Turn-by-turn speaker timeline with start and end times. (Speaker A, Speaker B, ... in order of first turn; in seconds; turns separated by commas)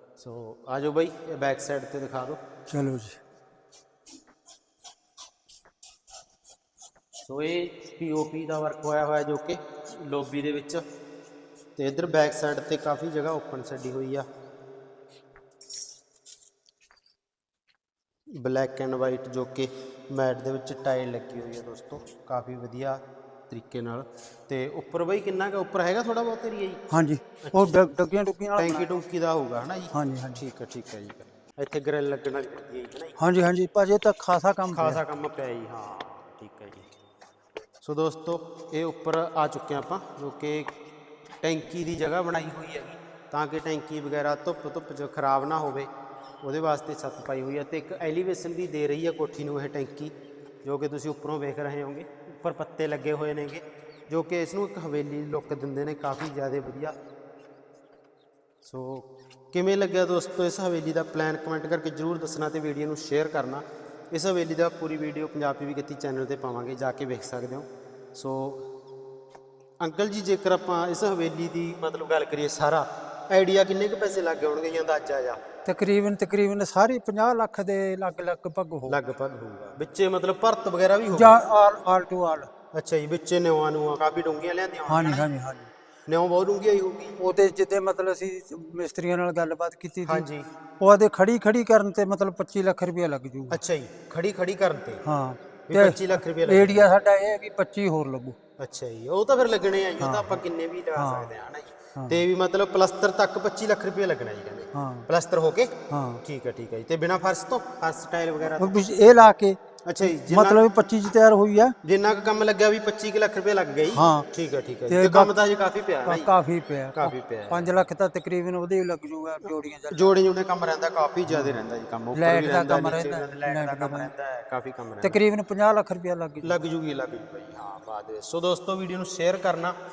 Speaker A: 0.2-2.4, Speaker B: 2.7-3.2, Speaker A: 7.2-10.8, Speaker A: 11.8-14.3, Speaker A: 18.3-26.8, Speaker B: 26.9-28.9, Speaker A: 27.4-27.8, Speaker A: 28.6-33.2, Speaker B: 29.9-30.4, Speaker B: 33.2-35.0, Speaker A: 34.7-36.9, Speaker A: 37.8-40.7, Speaker A: 41.4-45.9, Speaker A: 46.4-57.0, Speaker A: 58.6-68.6, Speaker A: 69.8-75.4, Speaker B: 75.7-79.0, Speaker A: 78.9-81.4, Speaker B: 81.1-82.5, Speaker A: 82.7-85.3, Speaker B: 84.9-85.7, Speaker A: 86.1-87.2, Speaker B: 87.2-90.2, Speaker A: 90.0-90.5, Speaker B: 90.8-93.6, Speaker A: 93.5-95.0, Speaker B: 95.0-98.4, Speaker A: 95.7-96.9, Speaker A: 98.6-105.7, Speaker B: 100.0-100.4, Speaker B: 101.0-101.3, Speaker B: 102.0-102.2, Speaker B: 104.7-105.1, Speaker B: 105.9-106.2, Speaker A: 106.2-108.8, Speaker B: 108.6-111.8, Speaker A: 109.9-110.6, Speaker A: 111.8-116.3, Speaker B: 113.9-114.2, Speaker B: 114.9-115.3, Speaker B: 116.1-120.2, Speaker A: 116.9-117.8, Speaker A: 119.9-125.2, Speaker B: 121.3-121.6, Speaker B: 122.2-124.1, Speaker B: 125.0-126.6, Speaker A: 126.4-129.8